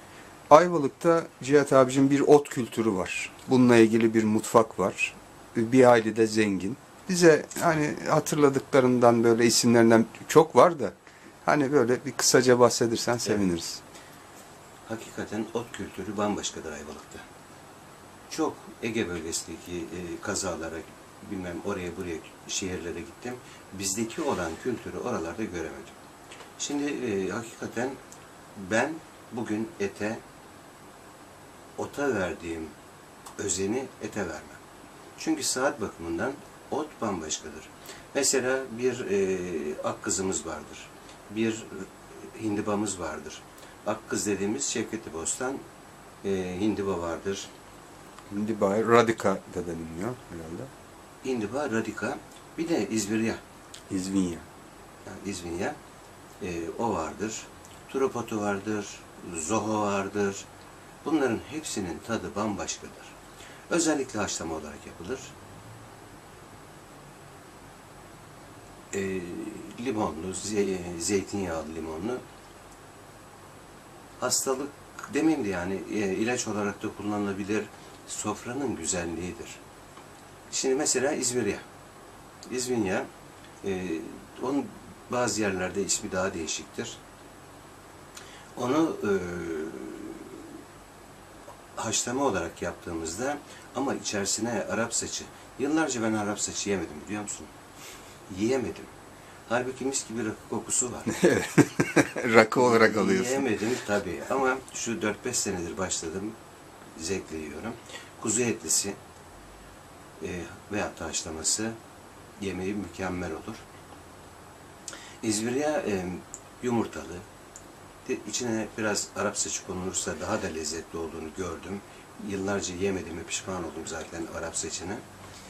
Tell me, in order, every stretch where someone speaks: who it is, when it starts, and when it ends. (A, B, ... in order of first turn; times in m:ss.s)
0:00.5-0:13.8 A
0:14.8-0:17.2 B
0:18.3-0:26.0 B
0:26.6-0:28.0 B
0:28.5-0:30.2 B
0:31.8-0:32.7 B
0:33.4-0:34.6 B
0:35.2-0:45.6 B
0:46.2-0:47.5 B
0:48.3-0:50.7 A
0:51.2-0:53.4 B
0:53.9-0:54.4 A
0:55.0-0:55.8 B
0:56.4-1:00.5 B
1:01.0-1:03.1 B
1:03.7-1:05.3 B
1:08.9-1:12.2 B
1:14.2-1:19.6 B
1:20.5-1:21.6 B
1:22.5-1:23.1 B
1:23.6-1:27.0 B
1:28.5-1:30.6 B
1:31.8-1:37.5 B
1:38.3-1:38.9 B
1:39.5-1:41.1 B
1:41.1-1:43.5 A
1:42.5-1:46.3 B
1:46.9-1:49.0 B
1:50.2-1:51.7 B
1:52.4-1:53.6 B
1:55.2-1:57.2 B
1:58.0-2:05.0 B